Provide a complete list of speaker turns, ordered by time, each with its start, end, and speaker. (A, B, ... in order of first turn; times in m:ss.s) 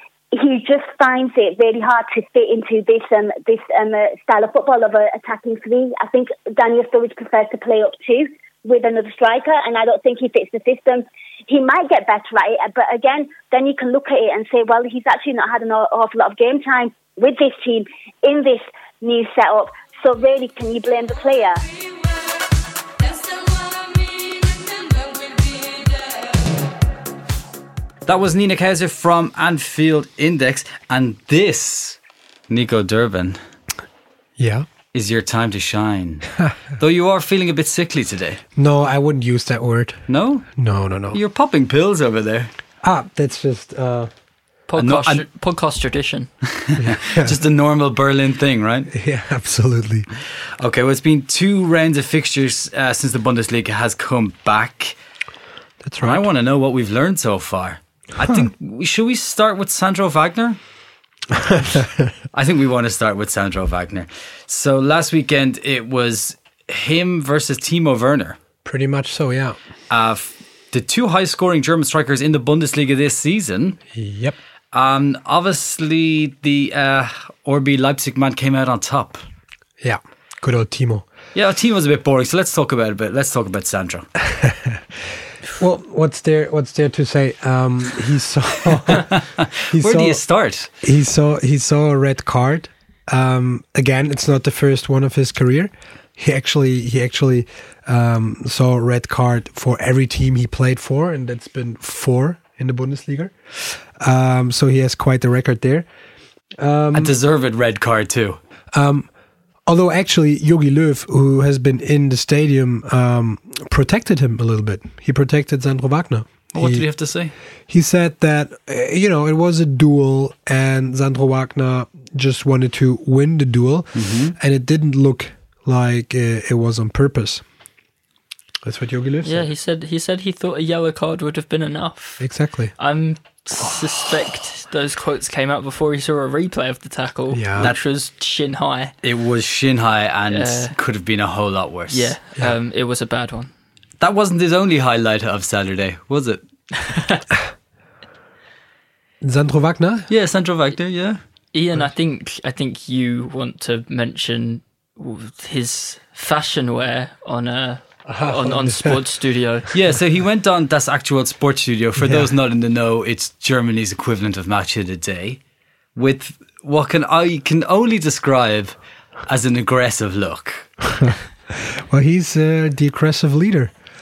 0:00.3-0:21.6 A
0:28.0-0:33.4 B
0:34.4-0:34.7 C
0:34.9-0:38.4 B
0:38.6-0:40.0 C
0:40.1-0:42.5 B
0:40.6-0:41.2 C
0:42.8-0:44.1 C
0:44.7-0:46.3 D
0:44.8-0:45.2 B
0:46.6-0:48.9 B
0:46.8-0:47.4 C
0:48.9-0:50.1 C
0:50.6-0:55.0 B
0:55.8-0:56.2 C
0:56.0-1:00.6 B
1:01.5-1:01.8 C
1:02.3-1:08.4 B
1:08.6-1:09.6 C
1:09.9-1:13.8 B
1:13.9-1:14.4 C
1:14.7-1:19.2 B
1:19.8-1:21.1 C
1:21.3-1:24.1 B
1:24.4-1:24.8 C
1:25.6-1:29.1 C
1:29.7-1:30.2 C
1:29.7-1:30.7 B
1:30.8-1:45.9 C
1:46.6-1:47.1 C
1:46.9-1:48.4 B
1:48.7-1:49.1 C
1:49.6-1:56.8 C
1:56.5-1:57.3 B
1:57.7-2:07.4 C
2:03.9-2:04.3 B
2:08.6-2:09.5 C
2:09.2-2:18.9 D
2:12.2-2:12.7 C
2:17.3-2:17.7 C
2:19.0-2:22.1 B
2:20.3-2:20.7 D
2:21.9-2:23.5 D
2:24.0-2:26.4 B
2:26.9-2:27.2 D
2:29.2-2:30.1 C
2:30.1-2:31.2 B
2:31.5-2:39.7 D
2:38.0-2:39.0 C
2:39.7-2:45.4 B
2:42.0-2:42.3 C
2:45.9-2:51.1 B
2:51.0-2:53.7 C